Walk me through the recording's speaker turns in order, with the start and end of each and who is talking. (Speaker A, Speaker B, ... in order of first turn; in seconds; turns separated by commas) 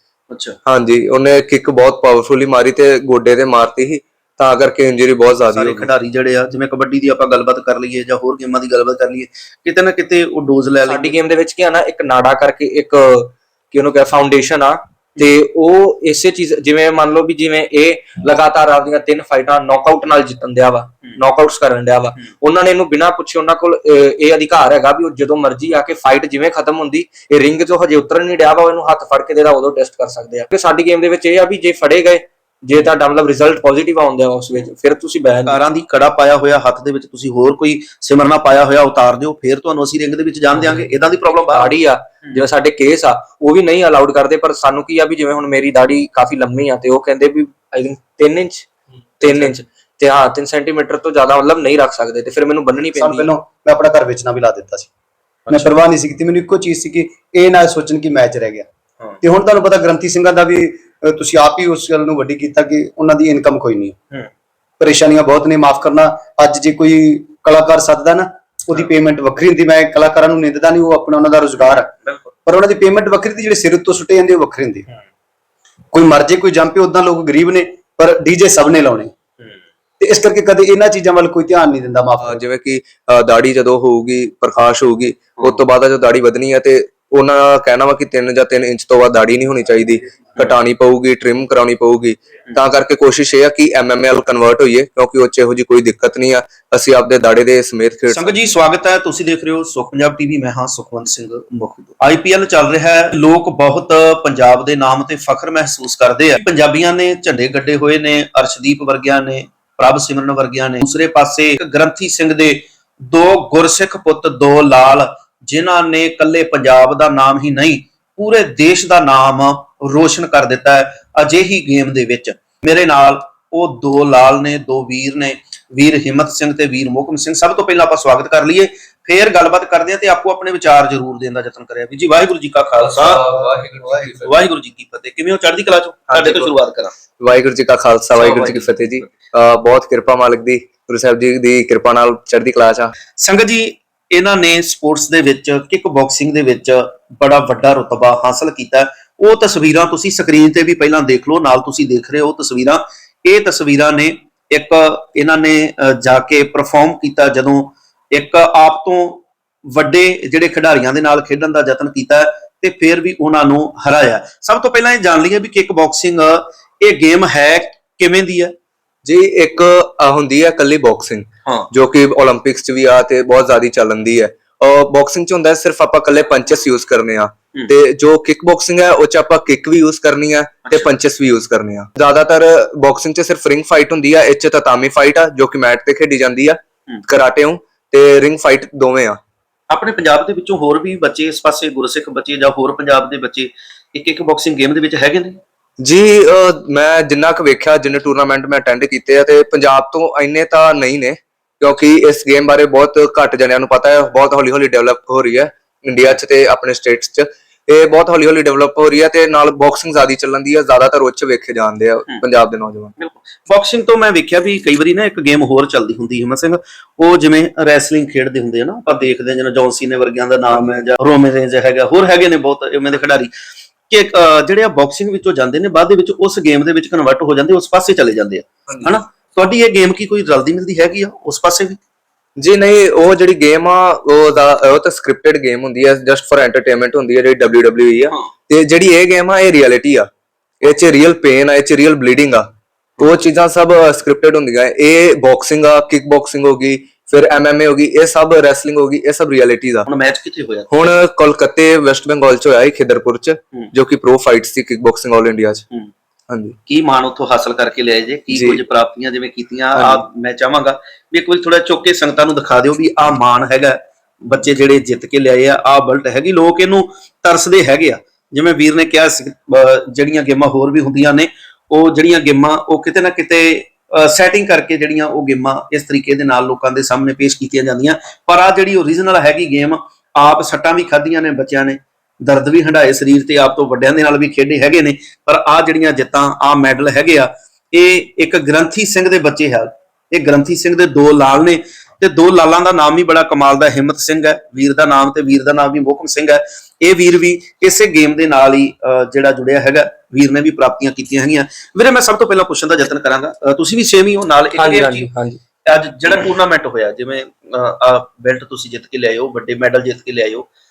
Speaker A: 0.3-0.6, Speaker B: 0.7-5.9, Speaker A: 5.5-11.1, Speaker C: 10.8-35.6, Speaker A: 35.5-42.4, Speaker C: 40.5-53.3, Speaker A: 49.2-49.5, Speaker D: 52.8-54.9, Speaker D: 55.5-58.7, Speaker D: 59.2-64.0, Speaker D: 64.8-71.9, Speaker D: 72.5-74.8, Speaker D: 75.9-79.1, Speaker D: 80.0-82.4, Speaker B: 82.2-98.3, Speaker A: 85.4-85.6, Speaker A: 98.1-133.2, Speaker B: 132.8-134.4, Speaker D: 133.8-134.1, Speaker A: 134.2-136.9, Speaker B: 136.1-136.5, Speaker B: 137.2-142.9, Speaker A: 138.1-138.7, Speaker A: 143.2-168.5, Speaker B: 169.0-189.2, Speaker A: 189.7-195.4, Speaker B: 195.8-212.9, Speaker A: 213.0-223.3, Speaker A: 223.9-231.8, Speaker B: 232.4-240.1, Speaker B: 240.6-249.9, Speaker A: 249.9-250.7, Speaker B: 250.7-255.7, Speaker B: 256.3-256.6, Speaker A: 256.7-305.1, Speaker B: 258.3-258.6, Speaker B: 259.8-260.0, Speaker C: 304.6-305.4, Speaker A: 305.6-310.5